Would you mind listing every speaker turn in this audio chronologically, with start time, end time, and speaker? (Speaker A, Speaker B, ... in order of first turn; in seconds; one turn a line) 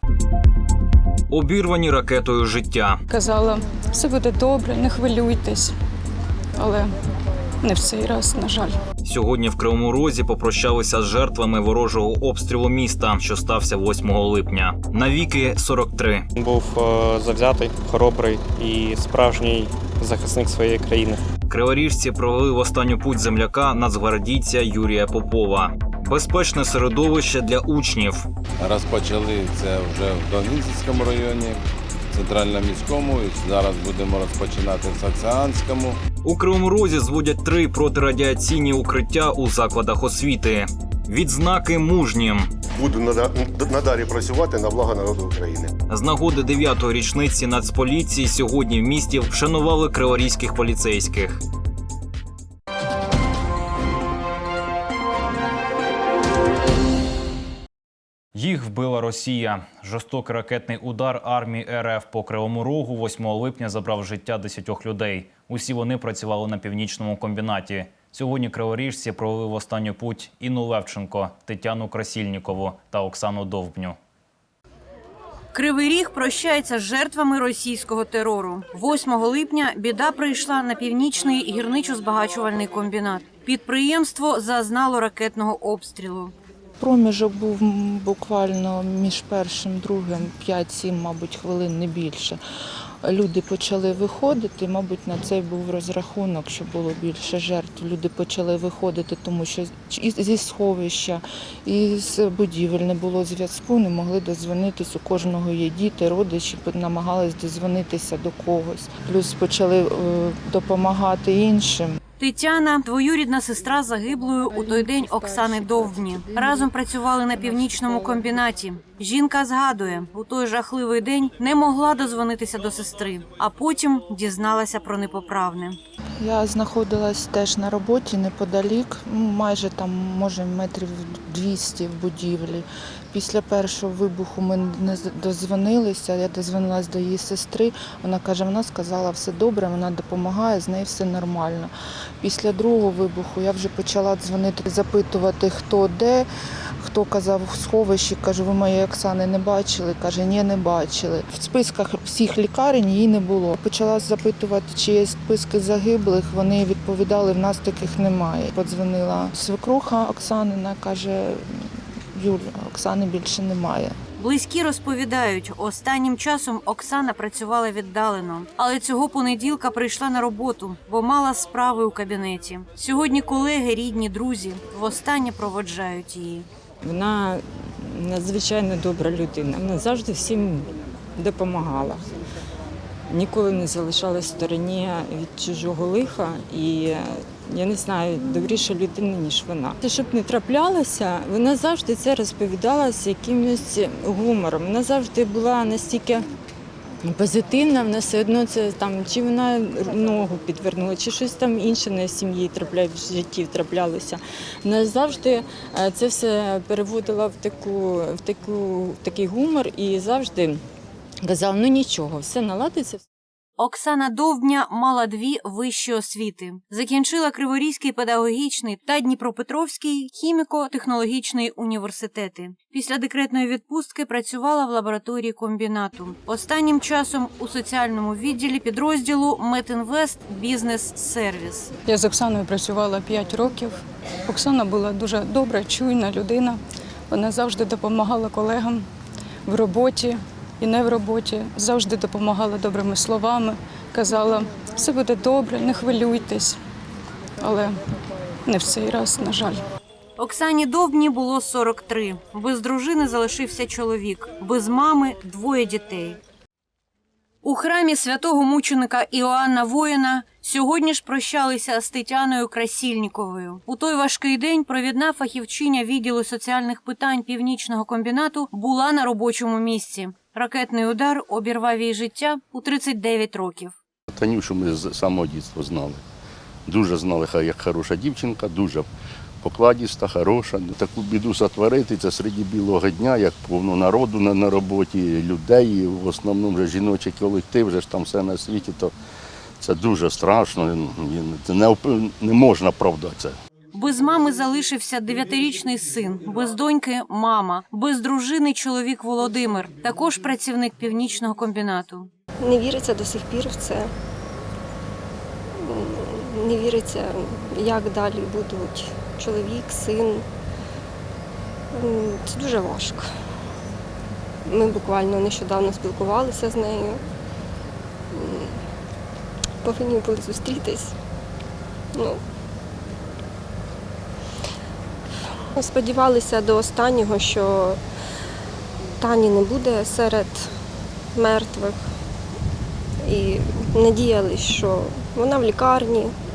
Speaker A: 1.3-3.0
Speaker B: 3.1-5.7
Speaker B: 6.5-6.9
Speaker B: 7.6-8.8
Speaker A: 9.0-16.2
Speaker C: 16.4-21.2
Speaker A: 21.5-28.3
Speaker D: 28.6-36.0
Speaker A: 36.2-42.5
Speaker E: 42.7-45.7
Speaker A: 45.9-51.4
Speaker A: 58.3-74.0
Speaker F: 75.5-86.3
Speaker G: 86.8-92.4
Speaker G: 93.0-112.0
Speaker F: 112.2-125.8
Speaker G: 126.2-146.3
Speaker G: 146.8-161.5
Speaker G: 162.1-163.9
Speaker F: 164.2-176.5
Speaker H: 176.8-182.0
Speaker H: 183.1-196.2
Speaker H: 197.0-210.6
Speaker H: 211.2-213.0
Speaker F: 213.6-231.7
Speaker B: 231.8-238.9
Speaker B: 239.4-246.6
Speaker B: 247.4-247.8
Speaker B: 248.4-249.6
Speaker F: 250.2-256.2
Speaker F: 257.4-273.7
Speaker I: 274.1-276.0
Speaker I: 276.7-278.9
Speaker I: 279.4-288.9
Speaker I: 289.6-293.4
Speaker F: 293.7-302.1
Speaker J: 302.4-303.9
Speaker J: 305.6-310.2
Speaker J: 311.7-313.1
Speaker J: 314.5-317.0
Speaker J: 318.1-318.6
Speaker J: 319.6-320.9
Speaker J: 321.9-322.2
Speaker J: 325.6-327.8
Speaker J: 329.0-330.5
Speaker J: 331.1-331.8
Speaker J: 333.0-336.1